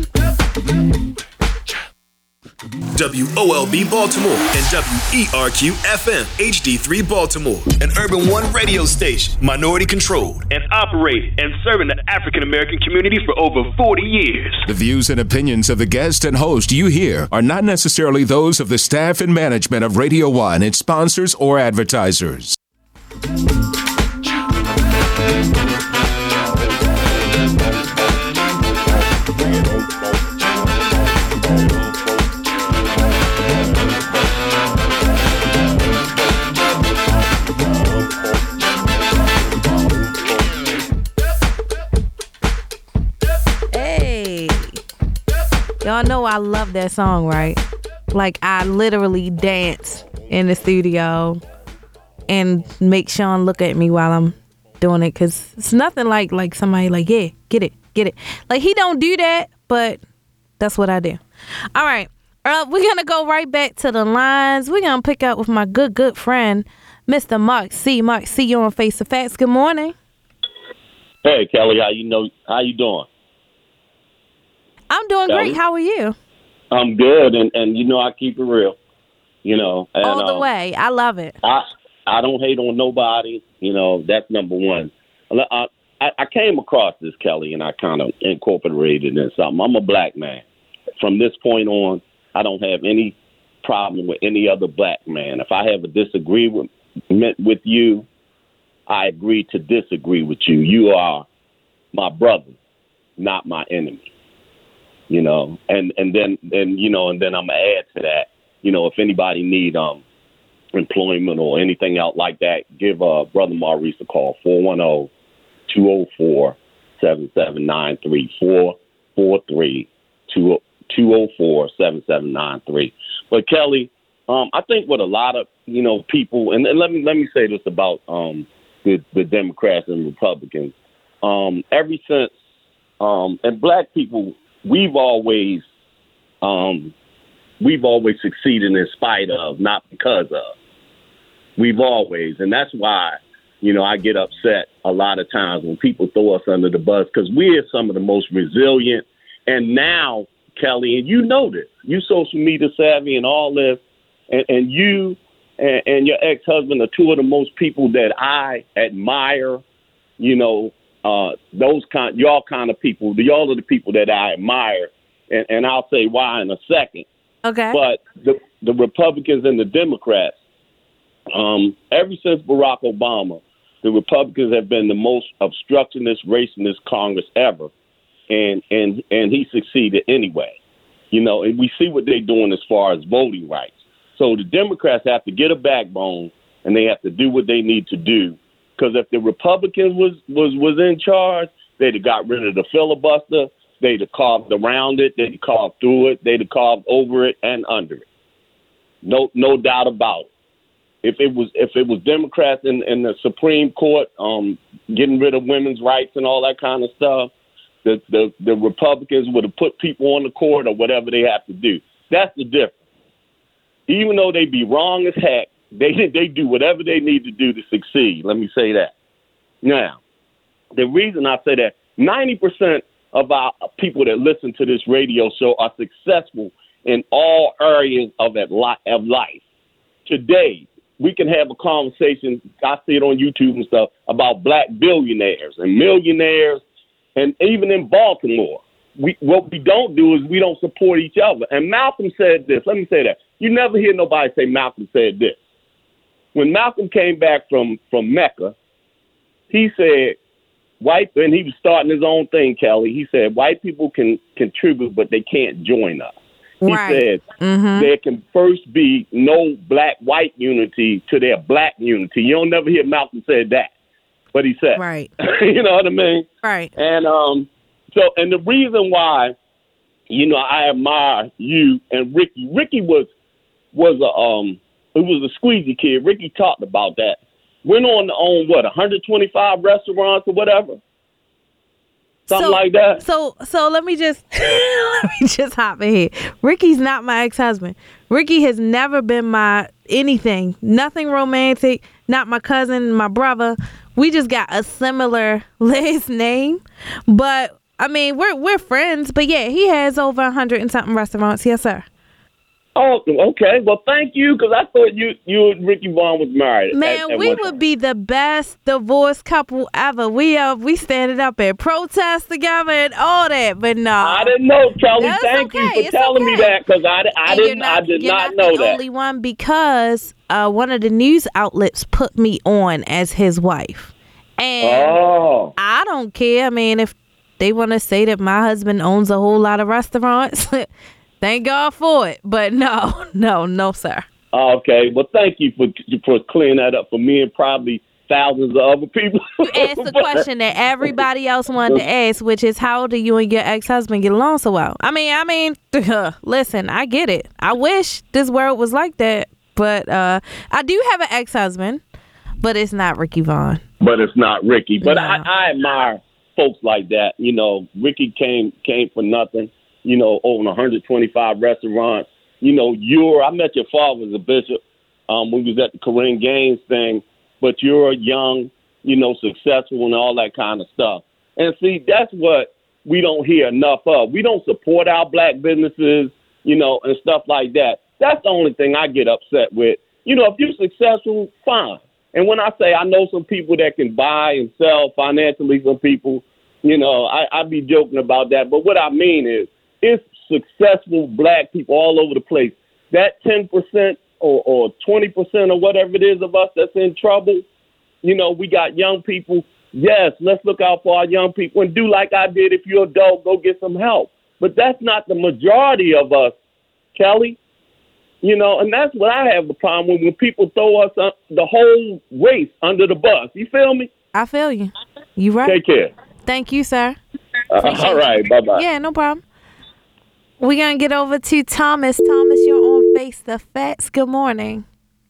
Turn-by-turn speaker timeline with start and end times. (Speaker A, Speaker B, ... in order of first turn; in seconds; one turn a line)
Speaker A: 2.9-10.5
Speaker B: 10.5-14.7
Speaker C: 14.7-22.5
Speaker D: 43.7-44.7
Speaker D: 45.8-51.4
Speaker D: 52.3-60.0
Speaker D: 60.6-61.2
Speaker D: 61.8-70.0
Speaker E: 71.2-73.1
Speaker D: 74.9-76.2
Speaker E: 75.3-75.6
Speaker E: 76.7-78.8
Speaker E: 79.4-80.5
Speaker D: 80.0-81.3
Speaker E: 81.4-90.4
Speaker E: 91.0-98.0
Speaker E: 98.9-101.2
Speaker E: 101.9-102.5
Speaker E: 103.2-104.1
Speaker E: 105.1-110.0
Speaker E: 110.8-115.1
Speaker E: 115.7-132.3
Speaker E: 133.0-135.6
Speaker E: 136.4-136.9
Speaker E: 137.6-140.5
Speaker E: 141.6-153.8
Speaker E: 154.3-159.6
Speaker E: 160.2-167.1
Speaker D: 167.4-167.8
Speaker E: 167.7-170.3
Speaker E: 171.3-177.7
Speaker E: 178.3-180.6
Speaker E: 181.1-198.0
Speaker E: 199.0-200.3
Speaker E: 201.0-207.3
Speaker E: 207.8-212.8
Speaker E: 213.9-218.9
Speaker E: 219.6-220.0
Speaker E: 220.8-229.4
Speaker E: 230.1-236.6
Speaker E: 237.2-245.4
Speaker E: 246.3-248.5
Speaker E: 249.5-250.2
Speaker E: 250.8-257.2
Speaker D: 256.6-257.9
Speaker E: 257.8-263.7
Speaker E: 264.3-266.3
Speaker D: 264.7-265.1
Speaker D: 266.4-266.7
Speaker E: 266.8-269.3
Speaker E: 270.1-273.1
Speaker E: 273.7-280.8
Speaker E: 282.3-283.0
Speaker D: 282.3-301.9
Speaker E: 302.8-307.5
Speaker D: 306.7-314.4
Speaker E: 314.0-318.8
Speaker D: 315.0-316.6
Speaker D: 317.3-325.0
Speaker E: 324.6-325.5
Speaker D: 325.6-330.7
Speaker D: 331.2-334.0
Speaker E: 334.3-340.2
Speaker D: 339.4-351.8
Speaker D: 352.4-353.6
Speaker E: 353.8-397.4
Speaker D: 354.8-355.3
Speaker E: 398.0-406.3
Speaker E: 406.9-407.4
Speaker E: 408.2-413.9
Speaker D: 414.1-415.6
Speaker E: 415.4-415.9
Speaker D: 416.3-417.0
Speaker E: 417.5-418.6
Speaker D: 417.6-419.2
Speaker D: 420.4-424.6